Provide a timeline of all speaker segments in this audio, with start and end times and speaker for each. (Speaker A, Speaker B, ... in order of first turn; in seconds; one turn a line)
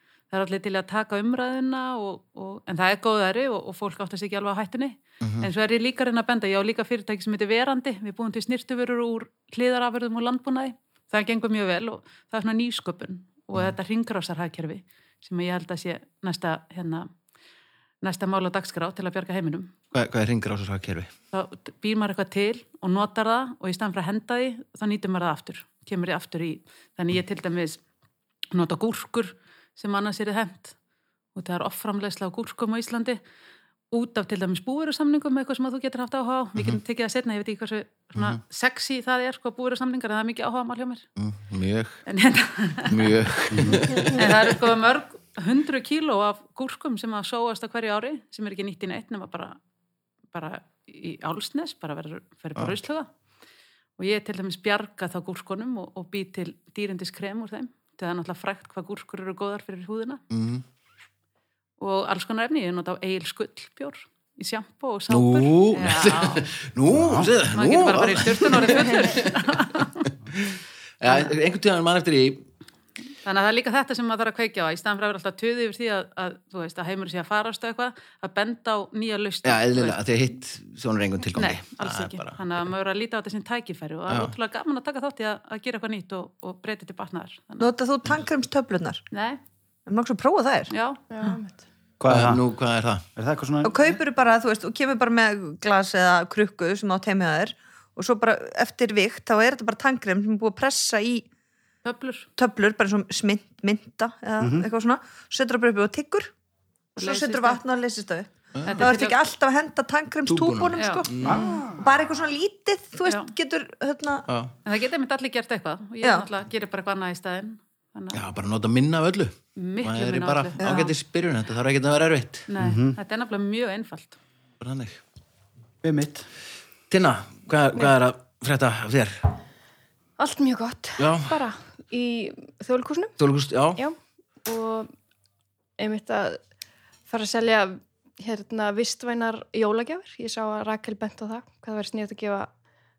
Speaker A: 0.3-17.1
Speaker B: 5.2-5.5
Speaker A: 18.0-19.7
Speaker B: 19.9-21.1
Speaker A: 21.3-27.8
Speaker A: 28.5-30.7
Speaker A: 31.3-33.2
Speaker A: 33.9-41.0
Speaker B: 41.2-42.0
Speaker A: 42.0-43.1
Speaker B: 42.9-44.4
Speaker C: 43.5-43.9
Speaker A: 44.1-49.6
Speaker A: 50.3-53.1
Speaker A: 54.0-60.2
Speaker B: 60.3-60.6
Speaker A: 61.8-66.5
Speaker B: 65.1-72.5
Speaker C: 66.9-67.3
Speaker A: 67.5-70.0
Speaker A: 73.2-80.0
Speaker B: 79.4-82.7
Speaker A: 81.3-87.7
Speaker B: 84.1-84.3
Speaker D: 87.6-89.0
Speaker A: 89.1-89.4
Speaker D: 89.9-90.7
Speaker A: 90.7-91.0
Speaker E: 91.1-91.6
Speaker C: 92.0-92.4
Speaker B: 92.0-93.0
Speaker C: 93.2-94.0
Speaker D: 93.6-101.2
Speaker A: 101.8-102.3
Speaker D: 102.4-106.3
Speaker C: 104.4-104.7
Speaker D: 107.0-114.3
Speaker A: 107.0-107.6
Speaker B: 108.5-108.9
Speaker A: 108.6-109.2
Speaker B: 110.3-111.5
Speaker A: 110.8-111.5
Speaker C: 111.2-111.8
Speaker A: 113.0-113.3
Speaker B: 114.3-114.5
Speaker A: 114.6-118.2
Speaker B: 118.1-122.5
Speaker A: 119.5-120.5
Speaker D: 120.6-120.9
Speaker A: 122.5-124.2
Speaker C: 122.6-123.0
Speaker B: 124.6-125.0
Speaker C: 125.8-126.2
Speaker B: 126.9-129.2
Speaker E: 130.2-133.1
Speaker B: 131.0-131.4
Speaker B: 133.2-133.8
Speaker E: 133.8-134.9
Speaker E: 135.8-136.4
Speaker E: 137.1-142.5